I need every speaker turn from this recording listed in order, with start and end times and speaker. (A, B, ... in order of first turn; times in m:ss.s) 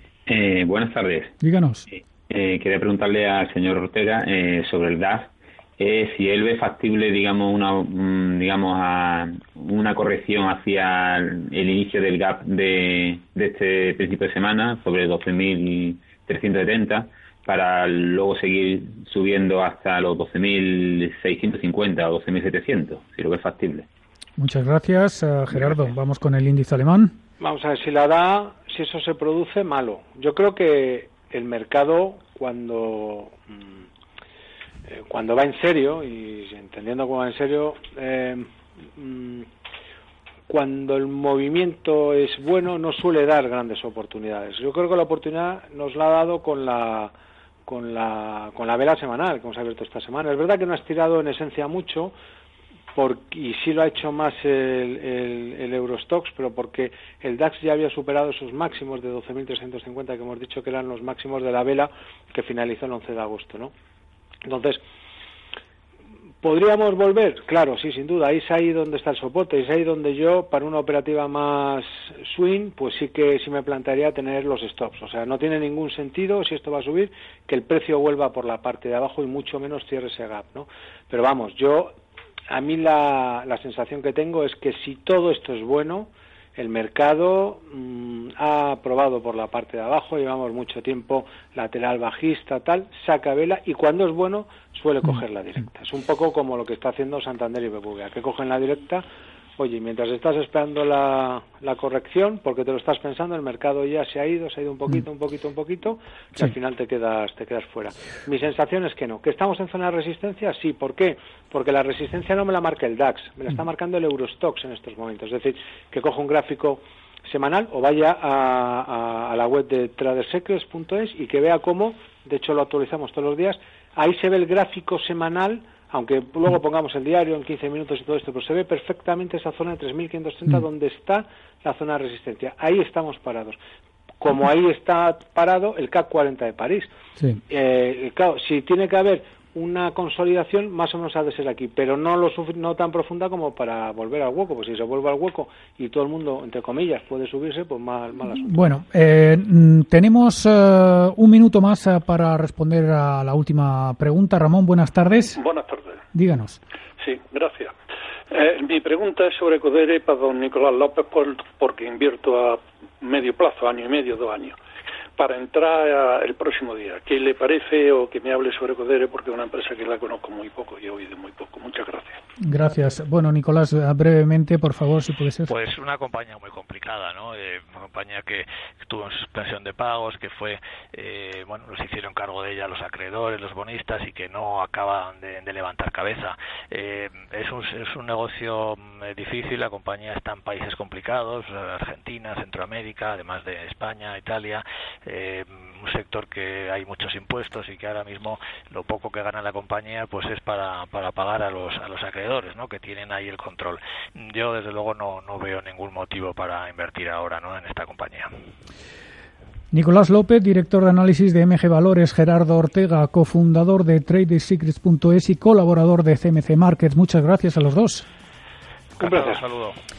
0:00.3-0:01.4 A
0:01.4-0:01.9 B
0:02.3-0:23.9 A
0:24.4-0:27.2 B
0:27.4-0:33.9 C
0:34.9-0:39.5 C
0:40.5-0:47.1 C
0:47.7-0:52.2 C
0:53.0-1:03.7 C
1:04.4-1:04.8 C
1:06.4-1:22.0 C
1:22.5-1:39.0 C
1:39.6-2:13.6 C
2:14.2-2:16.9 C
2:17.2-2:17.4 B
2:17.5-2:28.5 C
2:28.3-2:35.4 B
2:35.4-2:36.0 D
2:36.1-2:36.6 B
2:37.0-2:37.7 D
2:38.3-2:44.6 D
2:45.2-2:52.2 D
2:52.4-2:55.5 B
2:55.5-3:28.3 E
3:29.7-3:38.1 B
3:39.0-3:39.8 E
3:39.0-3:39.4 C